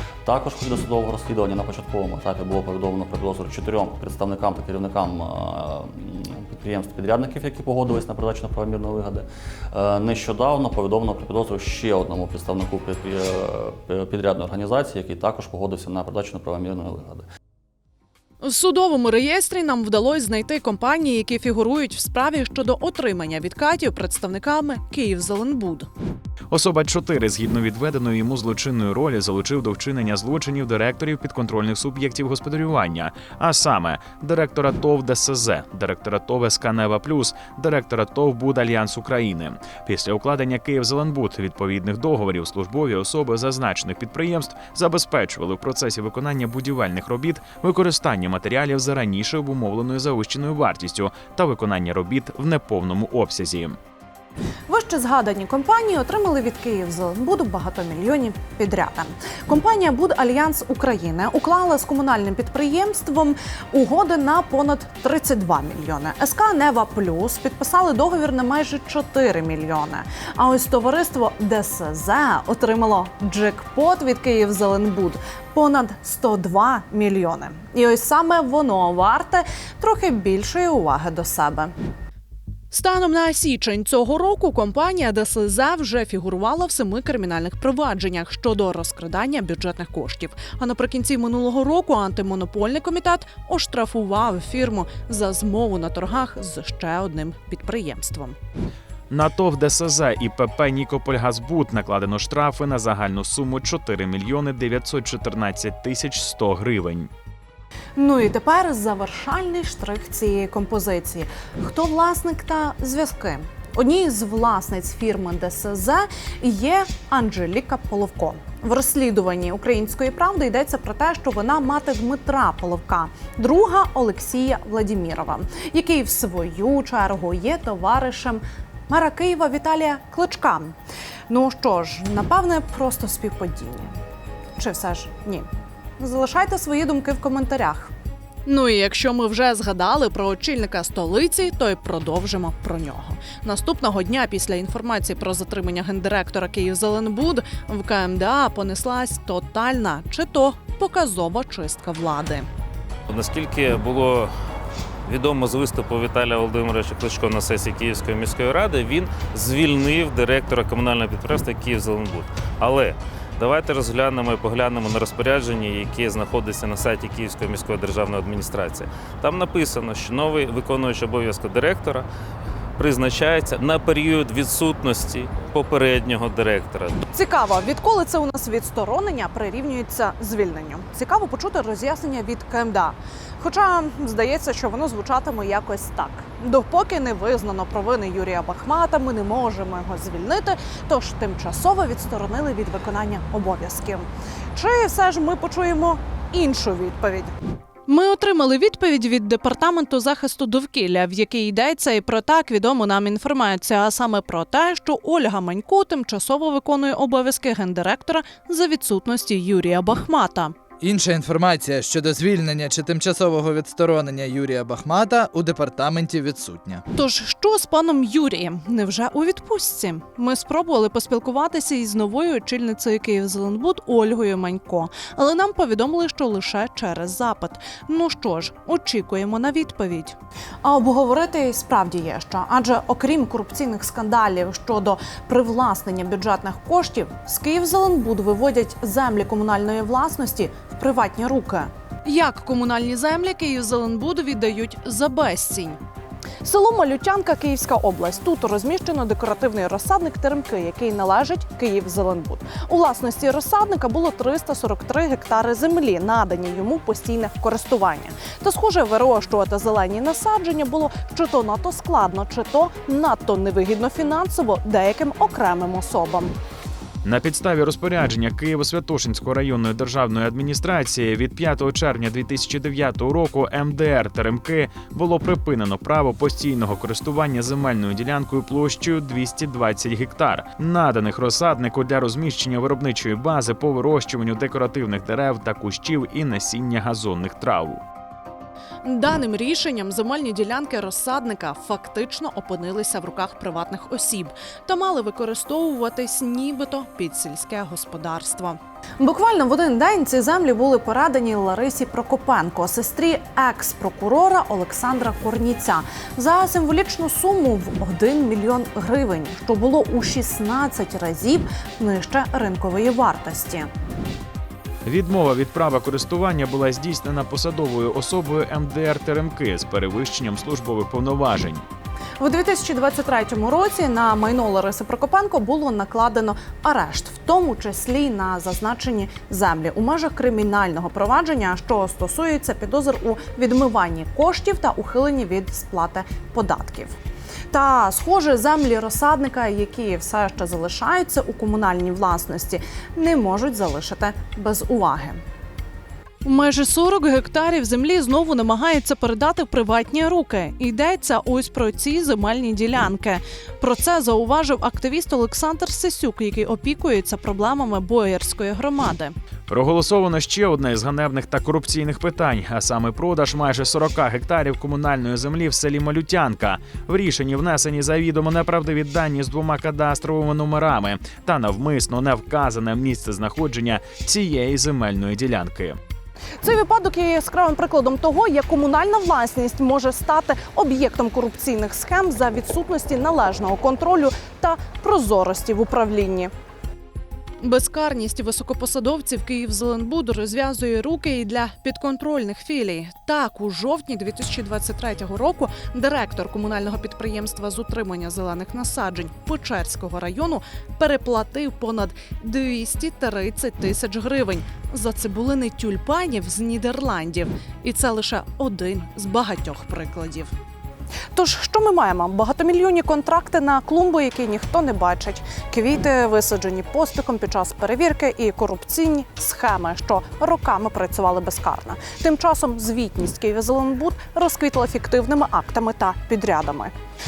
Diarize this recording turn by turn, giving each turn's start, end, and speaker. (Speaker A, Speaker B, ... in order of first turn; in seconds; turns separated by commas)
Speaker A: 0.2-17.2, Speaker B: 18.4-25.9, Speaker C: 26.5-53.8, Speaker B: 54.7-81.7, Speaker B: 82.7-98.3, Speaker C: 99.1-107.1, Speaker B: 108.0-130.7, Speaker B: 131.3-133.9, Speaker B: 134.6-135.5, Speaker B: 136.0-137.9, Speaker B: 138.4-152.5, Speaker D: 153.1-154.3, Speaker D: 155.1-172.1, Speaker D: 172.8-177.0, Speaker B: 177.1-197.3, Speaker B: 197.9-210.5, Speaker E: 210.8-216.8, Speaker B: 216.9-245.8, Speaker B: 246.4-266.3, Speaker C: 267.0-287.8, Speaker B: 288.8-313.7, Speaker C: 314.9-321.6, Speaker B: 322.2-336.9, Speaker B: 337.5-345.2, Speaker B: 346.2-359.1, Speaker C: 359.5-375.8, Speaker B: 376.4-386.3, Speaker B: 387.4-410.3, Speaker B: 411.1-426.7